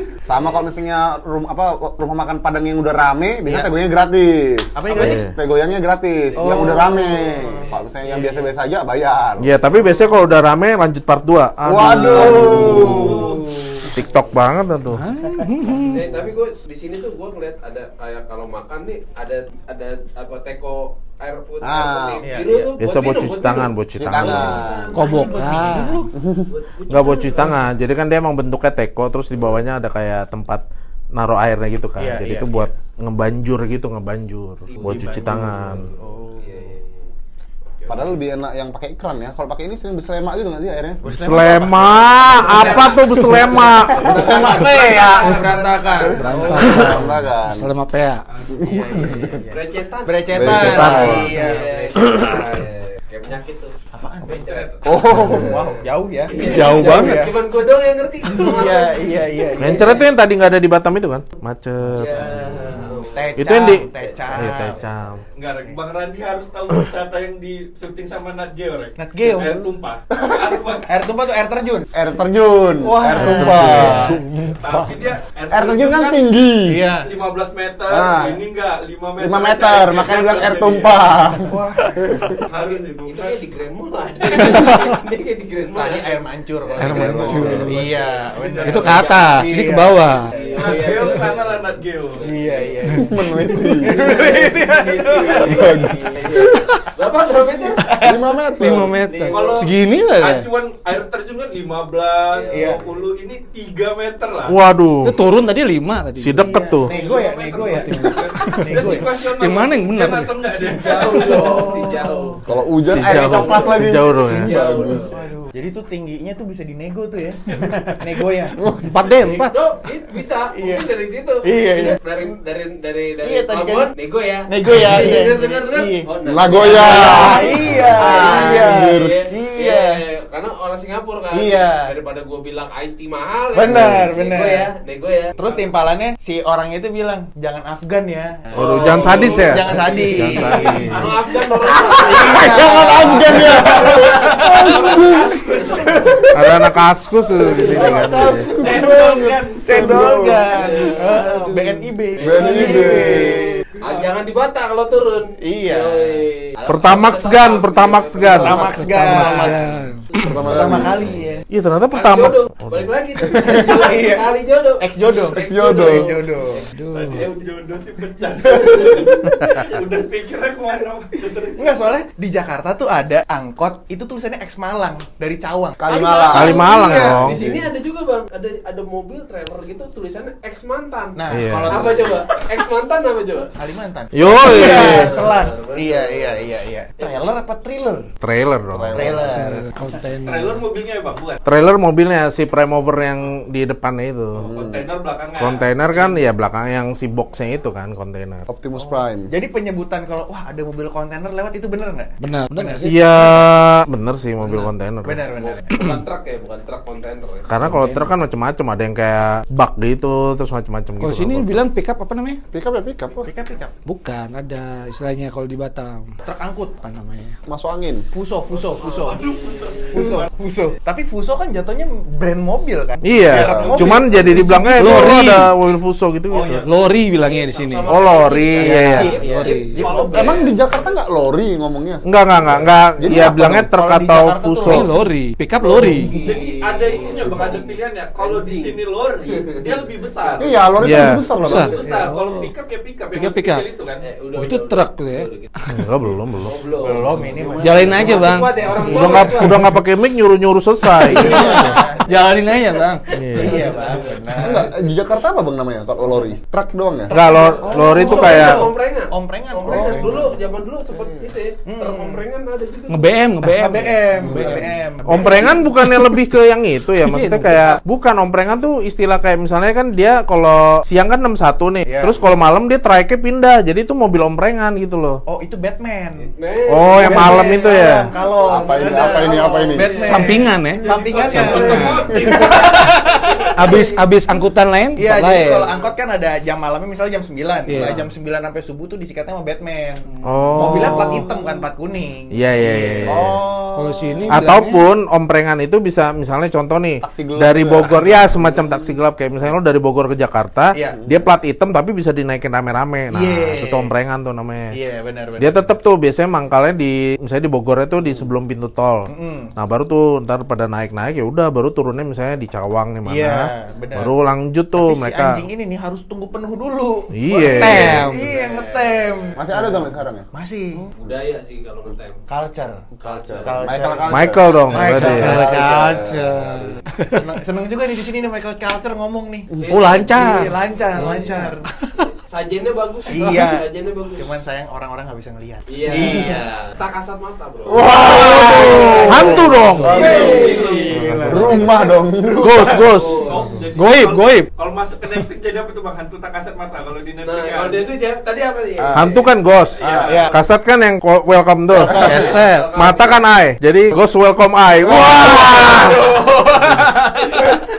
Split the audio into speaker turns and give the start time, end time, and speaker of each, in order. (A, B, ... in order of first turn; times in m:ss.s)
0:00.3-0:09.6 A
0:03.4-0:03.7 B
0:04.7-0:05.2 B
0:04.9-0:05.3 C
0:06.4-0:08.5 B
0:06.4-0:06.9 D
0:07.6-0:07.9 D
0:09.4-0:13.2 C
0:11.6-0:13.3 A
0:12.0-0:13.9 B
0:12.1-0:12.5 E
0:13.8-0:15.0 C
0:13.9-0:14.2 D
0:14.9-0:16.0 F
0:15.7-0:25.9 D
0:21.6-0:22.2 A
0:22.2-0:22.7 B
0:22.8-0:24.6 C
0:23.9-0:25.0 A
0:24.9-0:26.1 F
0:25.0-0:26.1 B
0:26.1-0:26.5 A
0:26.5-0:27.6 D
0:26.9-0:30.6 C
0:31.1-0:35.9 C
0:32.0-0:32.7 B
0:34.6-0:36.7 B
0:34.8-0:35.1 D
0:36.3-0:37.1 D
0:37.8-0:38.1 D
0:37.9-0:41.0 A
0:41.0-0:47.0 B
0:41.1-0:44.2 C
0:42.4-0:46.4 D
0:42.6-0:43.0 E
0:43.9-0:45.5 A
0:46.0-0:48.2 F
0:46.5-0:47.7 A
0:48.3-0:48.6 E
0:48.5-0:49.4 A
0:48.6-0:52.7 B
0:49.5-0:53.7 D
0:50.3-0:51.3 A
0:50.4-0:51.3 C
0:52.0-0:52.3 C
0:53.9-0:57.3 B
0:54.2-1:00.1 D
0:54.5-0:54.7 E
0:54.8-0:55.6 A
0:56.4-0:57.3 F
0:58.3-1:00.0 B
0:59.6-1:02.3 C
1:02.0-1:05.2 D
1:02.1-1:04.8 B
1:03.4-1:05.2 C
1:05.4-1:10.9 E
1:09.0-1:09.5 B
1:09.4-1:10.5 A
1:10.9-1:11.9 B
1:11.9-1:14.2 A
1:12.8-1:14.2 B
1:13.2-1:14.9 F
1:13.4-1:14.0 C
1:14.5-1:16.2 E
1:15.5-1:16.8 A
1:16.7-1:17.1 B
1:17.0-1:21.2 E
1:17.9-1:18.4 A
1:19.2-1:22.4 A
1:21.4-1:22.4 B
1:22.5-1:23.4 E
1:22.5-1:29.4 D
1:24.3-1:25.0 E
1:24.3-1:24.6 B
1:25.7-1:31.3 B
1:26.8-1:27.9 F
1:27.2-1:29.1 E
1:28.6-1:30.3 F
1:30.3-1:33.0 D
1:30.6-1:32.3 E
1:32.2-1:33.1 B
1:33.0-1:33.9 A
1:33.8-1:37.9 D
1:33.8-1:35.7 B
1:35.4-1:36.5 A
1:37.8-1:38.7 B
1:38.0-1:38.9 A
1:38.6-1:40.4 F
1:39.0-1:39.7 D
1:39.3-1:44.5 E
1:42.3-1:42.8 D
1:42.5-1:42.8 B
1:44.5-1:45.2 C
1:45.0-1:46.4 F
1:46.2-1:46.9 C
1:46.4-1:49.1 B
1:46.9-1:51.6 E
1:47.8-1:50.3 F
1:50.6-1:52.4 D
1:50.7-1:52.5 B
1:52.5-1:55.1 A
1:52.9-1:54.6 C
1:53.0-1:55.2 D
1:54.3-1:58.6 B
1:58.6-1:58.9 A
1:58.8-1:59.6 F
1:59.2-2:15.4 D
2:00.5-2:00.9 B
2:01.4-2:02.3 B
2:03.2-2:03.9 B
2:04.5-2:06.1 B
2:06.2-2:09.2 A
2:06.6-2:10.0 B
2:11.3-2:11.9 B
2:13.5-2:14.7 B
2:15.4-2:21.0 B
2:18.5-2:21.0 C
2:18.6-2:24.5 D
2:21.0-2:21.3 E
2:21.8-2:25.4 A
2:21.9-2:24.8 B
2:23.6-2:26.2 E
2:25.0-2:26.0 D
2:25.7-2:26.2 B
2:26.0-2:26.5 A
2:26.3-2:28.5 C
2:27.5-2:28.9 B
2:27.6-2:30.5 A
2:28.6-2:29.9 E
2:29.6-2:33.6 B
2:30.5-2:39.6 D
2:32.2-2:33.5 A
2:33.8-2:34.1 E
2:35.4-2:36.2 B
2:36.7-2:38.7 C
2:38.3-2:40.4 F
2:38.3-2:39.7 B
2:39.1-2:39.5 A
2:40.2-2:41.1 A
2:40.4-2:41.4 B
2:41.5-2:42.9 C
2:41.9-2:47.4 D
2:43.3-2:43.7 A
2:43.3-2:44.3 B
2:44.8-2:46.6 B
2:45.3-2:46.2 A
2:46.7-2:47.2 F
2:46.9-2:51.8 E
2:48.7-2:49.2 D
2:51.6-2:57.6 B
2:55.8-2:57.6 A
2:55.9-3:03.5 D
2:56.3-2:57.4 C
3:01.2-3:02.2 B
3:01.3-3:01.9 C
3:03.5-3:08.1 B
3:04.1-3:05.1 C
3:04.4-3:06.4 D
3:07.0-3:07.3 D
3:08.2-3:09.2 C
3:08.7-3:09.5 A
3:08.9-3:09.7 B
3:09.3-3:10.6 F
3:10.2-3:11.4 E
3:11.4-3:14.5 C
3:14.4-3:14.9 A
3:14.5-3:15.7 E
3:15.4-3:18.5 C
3:18.5-3:19.3 A
3:18.8-3:22.8 B
3:22.2-3:23.4 F
3:22.8-3:25.3 C
3:24.4-3:25.9 B
3:25.4-3:27.5 D
3:27.5-3:31.6 C
3:27.6-3:28.1 F
3:31.0-3:32.4 F
3:32.5-3:33.3 A
3:33.2-3:33.7 B
3:33.8-3:36.1 F
3:36.2-3:36.8 B
3:36.8-3:37.4 F
3:37.5-3:38.0 A
3:38.1-3:45.1 B
3:38.6-3:40.3 E
3:43.0-3:46.6 C
3:43.3-3:44.8 A
3:44.7-3:45.5 F
3:46.3-3:46.7 E
3:46.5-3:47.9 F
3:47.1-3:50.5 D
3:47.9-3:49.1 C
3:48.6-3:49.8 F
3:48.6-3:50.5 B
3:49.8-3:50.9 E
3:50.1-3:53.7 A
3:52.0-3:54.9 C
3:53.7-3:55.0 B
3:54.6-3:56.2 F
3:55.6-3:58.8 D
3:55.8-4:00.6 E
3:59.3-4:00.5 D
4:00.4-4:01.7 A
4:00.8-4:01.2 C
4:01.4-4:02.1 D
4:01.4-4:02.5 F
4:01.5-4:04.0 E
4:01.8-4:02.1 B
4:03.1-4:03.6 F
4:04.0-4:05.5 D
4:04.3-4:05.8 F
4:05.7-4:07.9 C
4:06.4-4:09.7 D
4:06.8-4:09.3 B
4:07.6-4:08.5 F
4:08.8-4:11.4 C
4:11.1-4:14.0 F
4:11.1-4:12.0 B
4:11.2-4:12.8 D
4:13.1-4:13.6 C
4:13.4-4:14.1 D
4:13.4-4:14.7 B
4:14.4-4:17.1 A
4:17.0-4:20.3 B
4:17.1-4:18.7 C
4:17.5-4:23.2 D
4:19.6-4:20.3 A
4:21.0-4:21.2 A
4:21.6-4:22.2 B
4:22.9-4:24.8 F
4:23.4-4:25.6 B
4:25.1-4:35.2 C
4:27.0-4:27.8 F
4:31.8-4:32.2 B
4:35.2-4:36.3 B
4:36.4-4:40.4 D
4:36.7-4:38.0 C
4:37.0-4:43.8 B
4:38.4-4:39.9 A
4:40.0-4:42.4 F
4:40.8-4:43.3 E
4:41.1-4:41.8 D
4:42.1-4:42.5 A
4:43.2-4:44.1 D
4:43.6-4:45.8 F
4:45.0-4:50.1 B
4:47.7-4:48.1 F
4:50.2-4:51.2 C
4:50.4-4:51.1 F
4:50.6-4:53.3 B
4:52.3-4:53.4 C
4:53.0-4:54.2 A
4:53.7-4:54.8 F
4:54.3-5:04.7 C
4:57.0-4:58.7 A
5:00.7-5:01.0 B
5:01.0-5:01.2 A
5:03.1-5:03.9 B
5:04.7-5:05.7 B
5:05.4-5:15.4 C
5:09.1-5:09.5 B
5:13.0-5:14.1 B
5:14.8-5:20.9 B
5:17.1-5:18.0 C
5:17.4-5:18.3 F
5:18.1-5:19.4 D
5:19.4-5:20.3 A
5:21.0-5:22.2 D
5:22.3-5:22.9 B
5:22.9-5:26.8 A
5:23.0-5:24.0 D
5:23.4-5:26.0 B
5:24.1-5:25.4 C
5:24.9-5:27.3 F
5:27.1-5:31.7 B
5:29.6-5:34.3 D
5:29.7-5:30.5 F
5:31.8-5:32.0 F
5:33.1-5:33.6 B
5:34.2-5:36.5 B
5:35.7-5:38.1 D
5:37.7-5:40.6 A
5:37.8-5:43.4 B
5:39.0-5:40.1 C
5:39.2-5:39.4 F
5:39.8-5:41.1 E
5:39.8-5:41.6 D
5:40.9-5:41.7 C
5:41.2-5:42.7 A
5:42.4-5:43.3 C
5:43.0-5:43.3 D
5:43.1-5:47.9 E
5:43.7-5:44.5 F
5:47.2-5:49.1 D
5:48.8-5:49.1 A
5:49.0-5:49.8 C
5:49.5-5:50.3 E
5:49.8-5:50.3 B
5:50.3-5:52.1 C
5:51.8-5:52.4 B
5:51.9-5:52.7 F
5:52.0-5:53.2 E
5:52.7-5:56.0 C
5:54.8-5:57.6 B